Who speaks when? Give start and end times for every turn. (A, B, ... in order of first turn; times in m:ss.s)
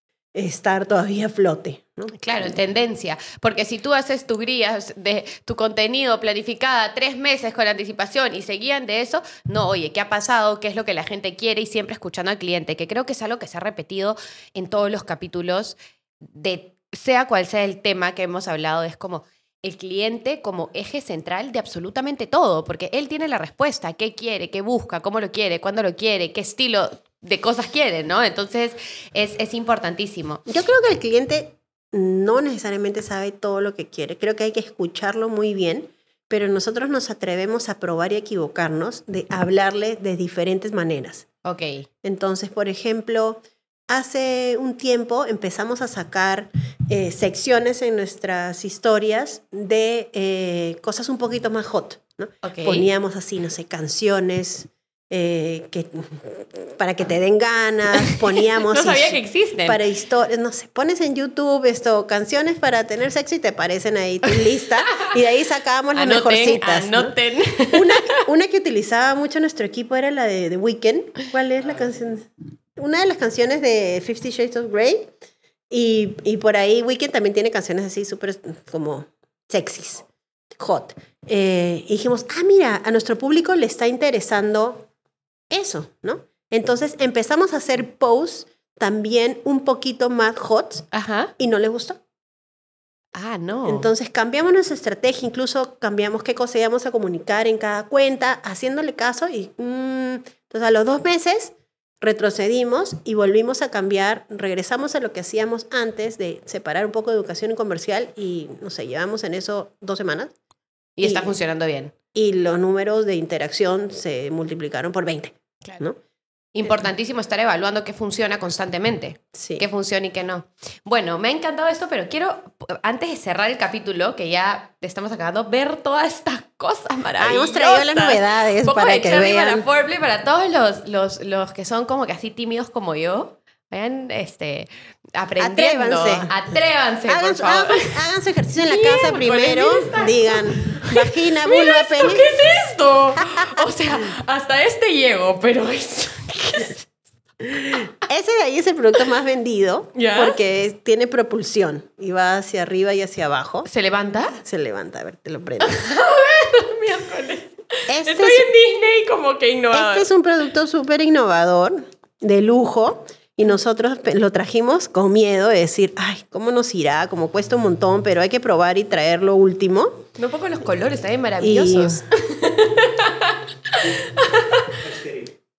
0:00.3-0:02.5 A
0:02.1-0:30.4 B
0:30.5-0:41.2 A
0:41.4-0:41.9 B
0:42.0-1:07.1 A
0:52.4-0:52.9 B
0:58.0-0:59.8 B
1:05.9-1:08.2 B
1:07.7-1:15.1 A
1:15.7-1:20.0 A
1:20.6-1:24.9 A
1:25.5-1:30.8 A
1:30.9-1:31.3 B
1:31.4-1:32.0 A
1:33.1-1:33.9 B
1:33.6-1:50.3 A
1:51.0-1:51.9 B
1:51.0-1:51.3 A
1:52.1-1:56.0 A
1:56.5-2:17.9 B
1:59.3-1:59.6 A
2:07.2-2:09.6 A
2:15.4-2:16.4 A
2:17.1-2:22.3 A
2:18.6-2:26.9 B
2:23.3-2:23.6 A
2:27.5-2:27.9 B
2:27.9-2:33.7 A
2:29.9-2:30.4 B
2:33.6-2:34.4 B
2:34.4-2:35.8 A
2:35.6-2:40.1 B
2:37.9-2:38.5 A
2:39.7-2:50.0 A
2:50.2-2:55.1 B
2:51.4-2:52.0 A